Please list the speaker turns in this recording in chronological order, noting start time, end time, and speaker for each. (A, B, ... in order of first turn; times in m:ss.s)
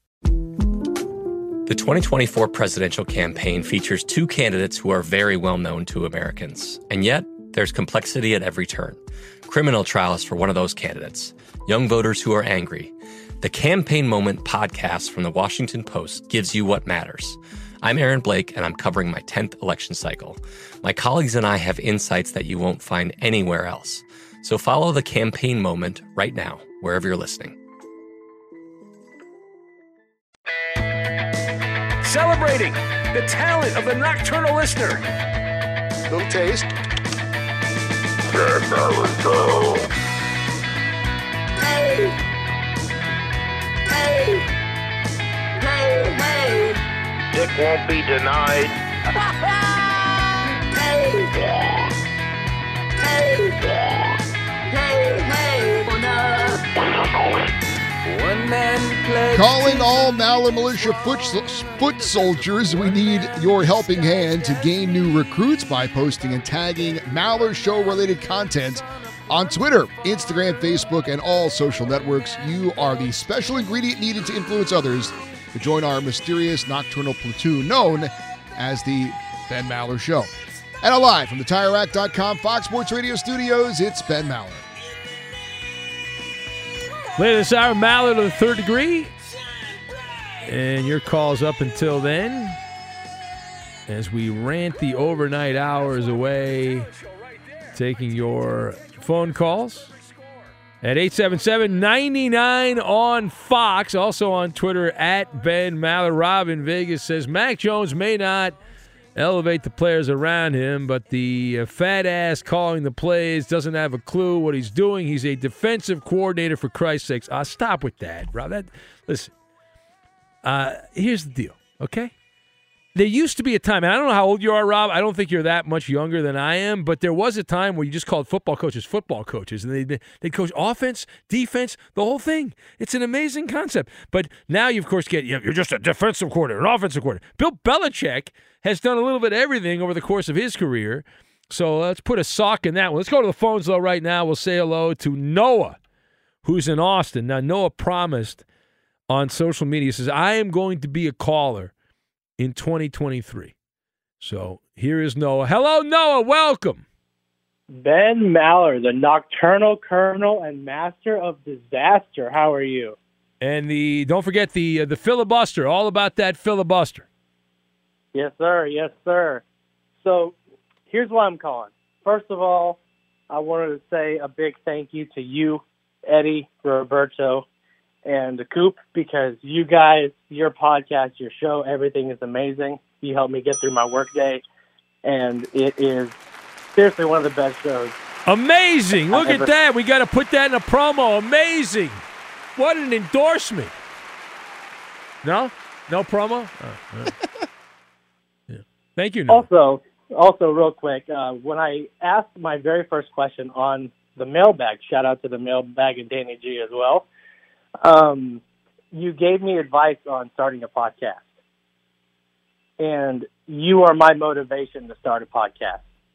0:01.6-0:27.6 A
0:32.0-0:35.0 B
0:36.1-0:36.6 C
0:38.4-0:39.8 D
0:41.6-0:42.2 D
0:43.9-0:44.4 D
0:45.6-0:46.8 D
0:50.7-0:51.9 D
0:53.0-0:54.2 D
0:54.7-0:56.6 D
0:59.3-1:20.3 C
1:20.8-1:24.6 C
1:27.2-1:29.1 B
1:30.4-1:32.6 B
1:33.9-1:36.9 B
1:37.7-1:39.9 B
1:40.8-1:48.6 B
1:49.2-1:59.3 B
2:00.4-2:02.1 B
2:02.9-2:25.8 B
2:26.4-2:28.4 B
2:29.1-2:31.7 B
2:32.4-2:33.5 B
2:34.2-2:36.8 B
2:37.7-2:43.0 E
2:43.4-2:47.0 B
2:48.1-2:49.4 E
2:50.0-2:50.3 E
2:50.9-2:52.8 E
2:53.3-2:57.4 E
2:58.0-3:04.4 E
3:05.0-3:06.2 E
3:06.7-3:08.0 E
3:08.2-3:12.0 B
3:09.1-3:09.5 E
3:12.6-3:13.7 B
3:15.2-3:17.1 B
3:18.5-3:19.4 B
3:19.3-3:27.0 E
3:27.8-3:28.4 E
3:28.9-3:31.3 E
3:32.8-3:35.8 E